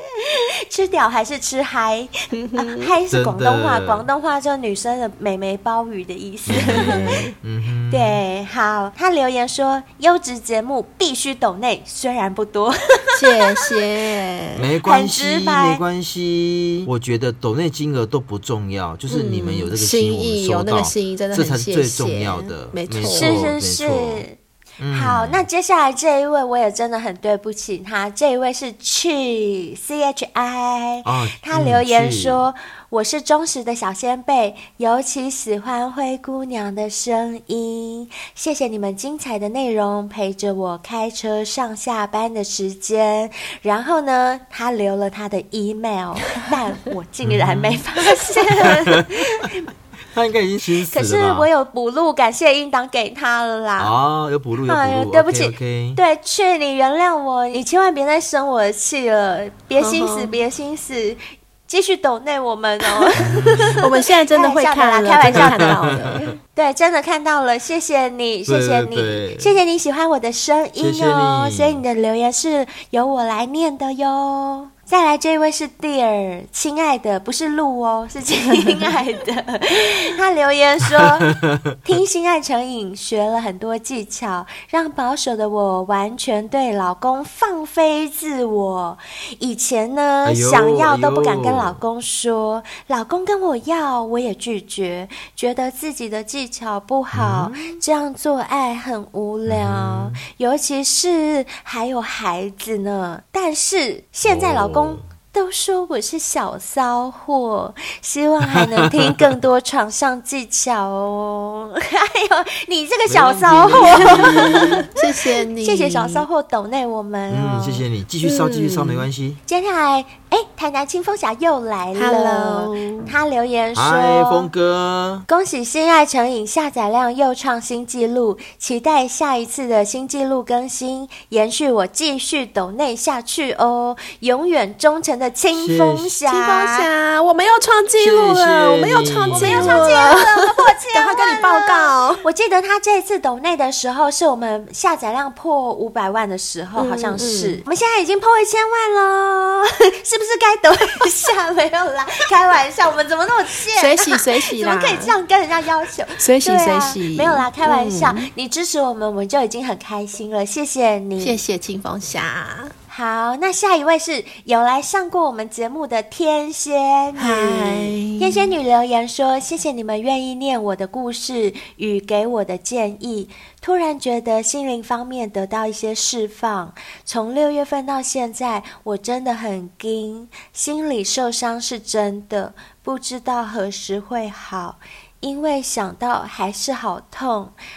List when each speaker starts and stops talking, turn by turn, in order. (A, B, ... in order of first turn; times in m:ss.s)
0:00.2-0:07.1 A
0:02.3-0:02.9 B
0:03.1-0:04.0 C
0:06.5-0:08.2 C
0:06.5-0:07.3 B
0:07.9-0:13.7 A
0:13.1-0:14.6 B
0:14.5-0:24.2 C
0:14.8-0:15.8 A
0:19.1-0:23.5 B
0:23.1-0:24.4 A
0:24.8-0:25.4 C
0:24.9-0:49.6 A
0:31.0-0:32.5 C
0:47.2-0:49.5 C
0:50.1-0:51.5 C
0:50.9-0:53.9 A
0:53.8-0:56.0 C
0:54.6-1:05.8 A
0:59.8-1:00.4 B
1:03.2-1:03.8 C
1:03.8-1:06.3 B
1:05.2-1:06.0 C
1:06.5-1:54.8 A
1:08.5-1:09.5 C
1:10.8-1:11.8 C
1:21.0-1:21.5 C
1:30.2-1:31.8 C
1:37.1-1:37.8 C
1:39.4-1:40.2 C
1:44.2-1:45.1 C
1:48.5-1:49.2 C
1:53.1-1:54.9 C
1:53.8-1:56.2 B
1:55.6-1:57.8 A
1:57.3-1:59.4 C
1:58.2-1:59.1 B
1:59.5-2:04.5 A
2:01.9-2:03.1 B
2:03.7-2:05.2 C
2:05.3-2:16.9 A
2:15.5-2:16.2 C
2:16.3-2:22.2 B
2:18.0-2:20.0 C
2:19.3-2:41.4 A
2:26.8-2:27.6 B
2:33.8-2:35.1 B
2:36.2-2:38.3 B
2:41.2-2:42.7 B
2:42.9-3:07.5 A
2:47.2-2:48.5 B